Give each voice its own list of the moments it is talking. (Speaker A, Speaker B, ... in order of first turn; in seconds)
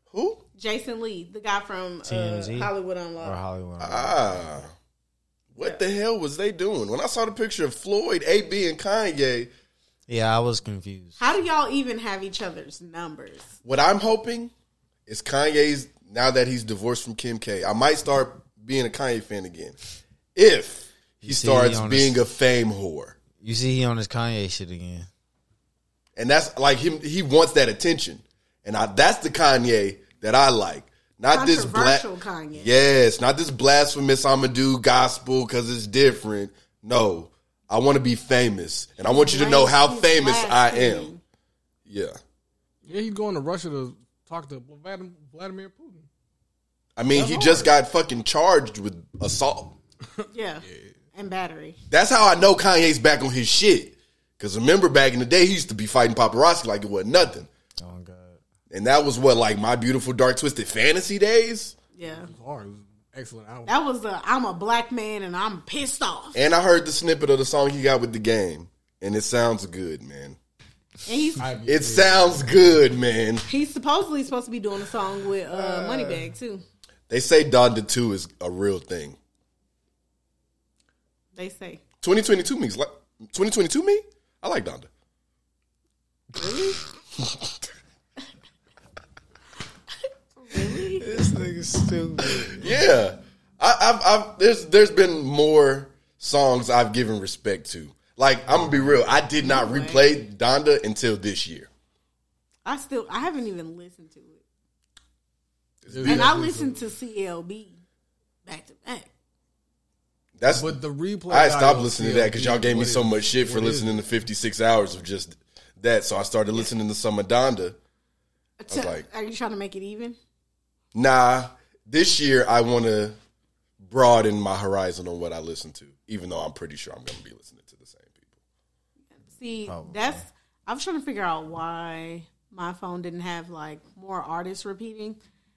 Speaker A: 0.1-0.4, 3.8-4.7, 5.5-9.5, 13.6-14.5, 15.1-19.8, 20.3-23.2, 26.1-41.1, 41.9-42.2, 47.0-49.8, 51.9-57.5, 58.7-61.7, 66.3-70.4, 71.7-73.5, 77.1-79.2, 82.0-84.9, 92.5-101.7, 105.8-106.3, 110.4-110.8, 111.3-117.8, 118.7-119.0, 120.9-123.2, 123.8-128.3
Speaker B: 0.6-3.4, 11.2-13.5, 31.3-32.7, 39.0-41.2, 50.3-51.8, 61.9-62.3, 63.7-66.4, 71.0-71.4, 73.5-76.6, 81.3-81.8, 86.3-86.8, 90.4-91.1, 99.4-100.1, 102.6-104.4, 106.0-107.8, 108.5-109.1, 118.6-120.2, 129.2-135.2
Speaker C: 2.0-4.2, 10.1-11.3, 21.2-22.2, 23.4-25.1, 57.8-58.4, 75.5-76.3, 90.9-92.7, 129.6-130.2
Speaker D: 42.8-46.0, 47.1-47.7, 50.2-50.9, 62.0-63.7, 71.4-72.7, 98.5-98.8, 105.9-106.8, 110.5-114.2